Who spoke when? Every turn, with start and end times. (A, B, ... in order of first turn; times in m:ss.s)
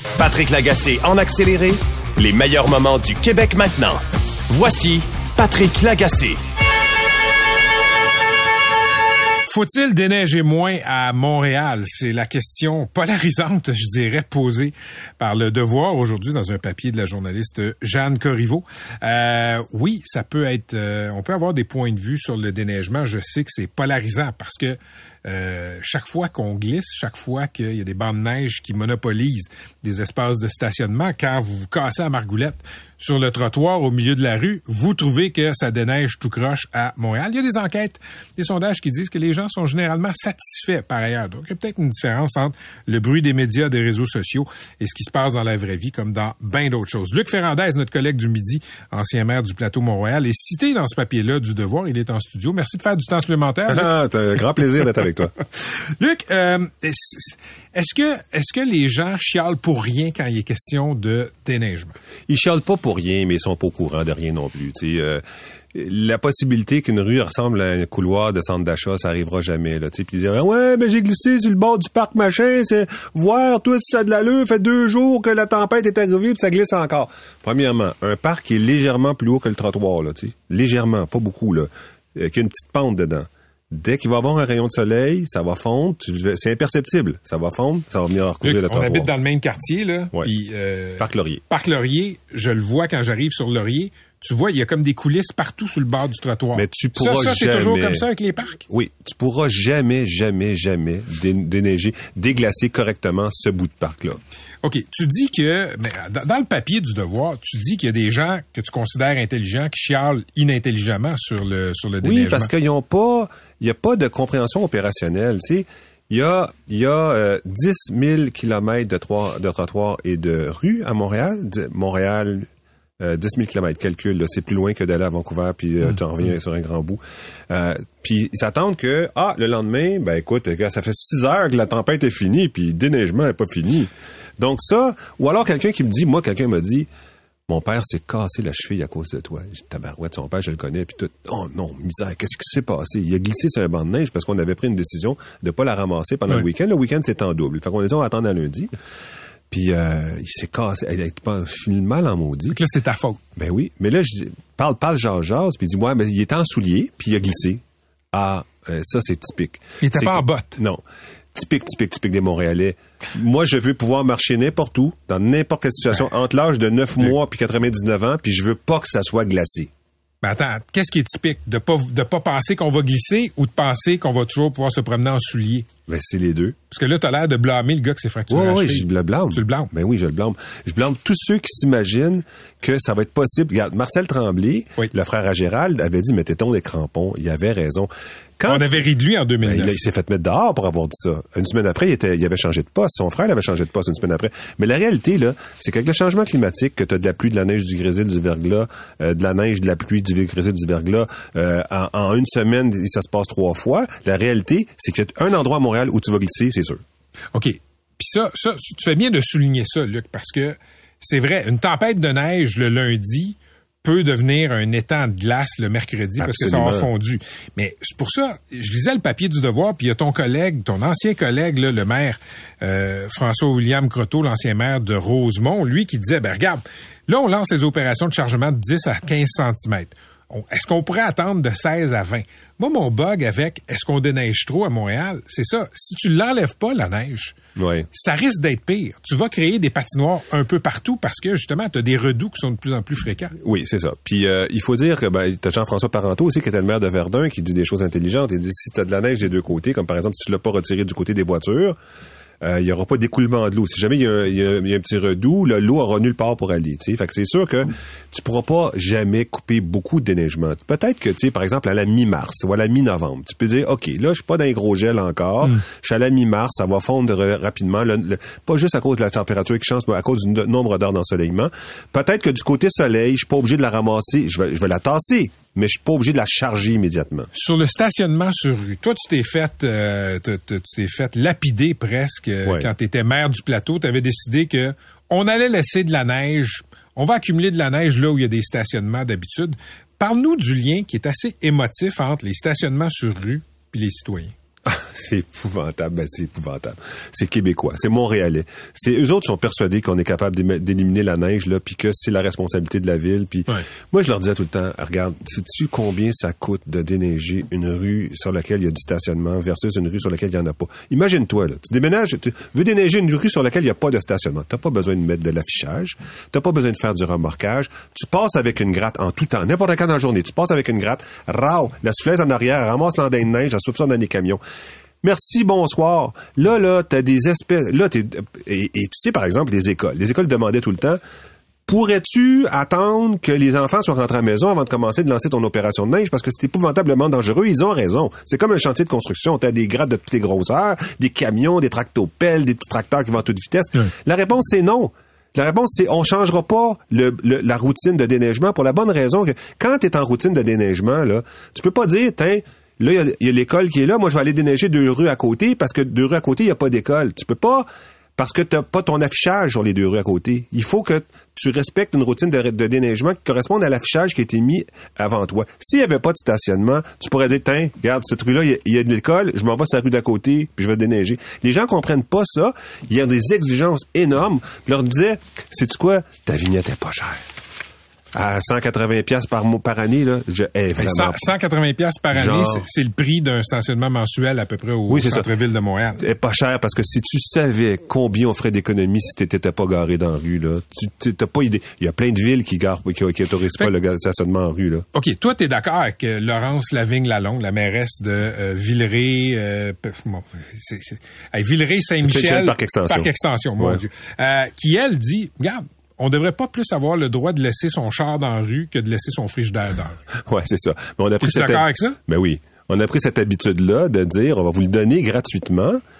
0:00.2-0:06.4 A
0:09.5-0:53.9 B
0:53.7-0:55.3 C
0:56.0-1:01.9 B
1:02.3-1:29.1 C
1:28.4-1:38.6 B
1:31.0-1:31.4 C
1:36.6-1:38.0 C
1:38.7-1:44.2 C
1:44.6-1:52.5 B
1:52.0-2:02.5 C
2:03.0-2:16.9 C
2:17.5-2:28.7 C
2:29.5-2:32.6 C
2:32.5-2:33.2 B
2:33.4-2:40.8 C
2:39.8-2:40.6 B
2:41.3-2:49.7 C
2:50.2-2:55.7 B
2:55.9-2:56.6 C
2:56.7-2:59.7 B
2:58.3-3:08.8 C
3:08.5-3:09.8 B
3:09.4-3:26.8 C
3:27.3-3:57.4 B
3:36.2-3:36.9 C
3:57.6-3:57.9 C
3:57.9-4:03.3 B
4:03.4-4:11.8 C
4:12.4-4:37.3 C
4:37.3-4:54.3 B
4:54.7-5:24.4 C
5:25.0-5:31.0 C
5:31.7-5:57.7 C
5:58.2-6:17.3 C
6:18.1-6:21.2 C
6:20.8-6:26.0 B
6:22.1-6:22.7 C
6:24.9-6:25.3 C
6:26.0-6:34.9 C
6:34.9-6:50.0 B
6:42.0-6:43.8 C
6:50.2-6:55.8 C
6:51.2-6:52.0 B